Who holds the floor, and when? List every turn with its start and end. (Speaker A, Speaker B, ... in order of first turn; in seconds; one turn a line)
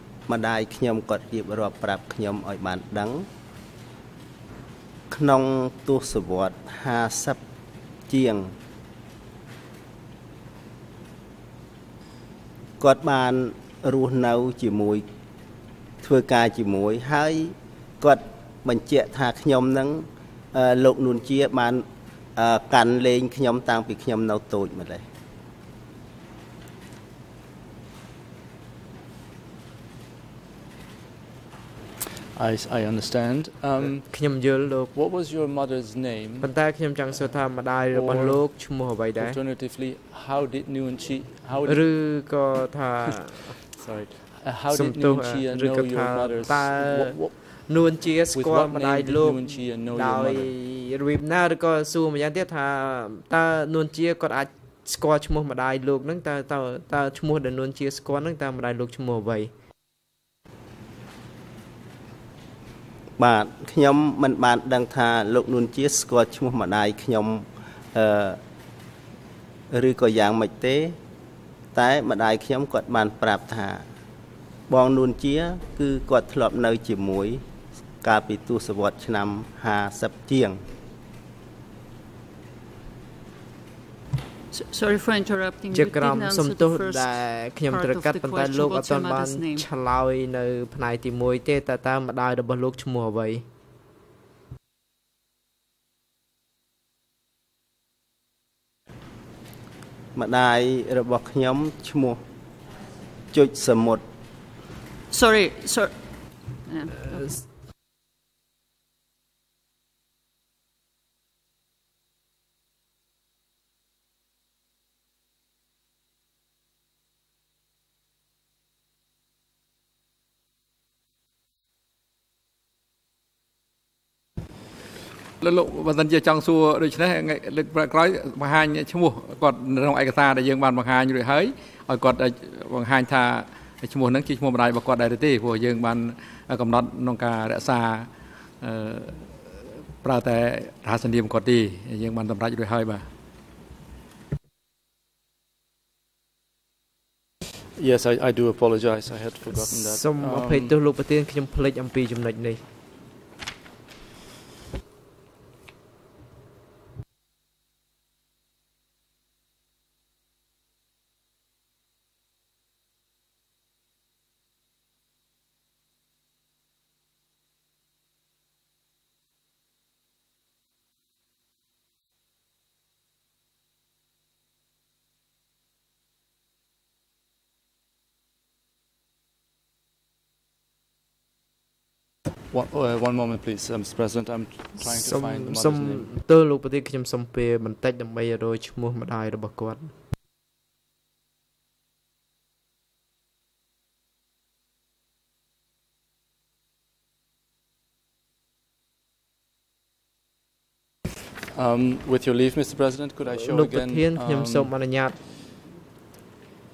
Speaker A: 0.3-3.3
Speaker A: 5.1-7.4
Speaker A: 8.1-8.6
Speaker A: 12.8-15.0
Speaker A: 16.0-21.8
Speaker A: 22.4-25.0
Speaker B: 32.3-34.1
Speaker C: 34.1-34.9
Speaker B: 34.9-36.5
Speaker C: 36.4-39.4
Speaker B: 37.9-38.4
Speaker B: 39.2-41.9
Speaker C: 41.6-44.1
Speaker B: 43.8-47.4
Speaker C: 44.7-59.5
Speaker B: 48.3-50.5
Speaker A: 63.2-68.4
Speaker A: 69.7-71.0
Speaker A: 71.7-73.9
Speaker A: 74.7-77.4
Speaker A: 78.0-80.6
Speaker D: 84.5-89.7
Speaker C: 85.7-93.4
Speaker A: 100.1-102.2
Speaker A: 103.3-104.0
Speaker D: 105.1-105.9
Speaker D: 106.6-107.4
Speaker E: 125.4-143.1
Speaker B: 147.8-150.7
Speaker C: 149.5-152.6
Speaker B: 182.5-186.1
Speaker C: 184.8-189.9
Speaker B: 201.5-204.7
Speaker C: 203.5-205.2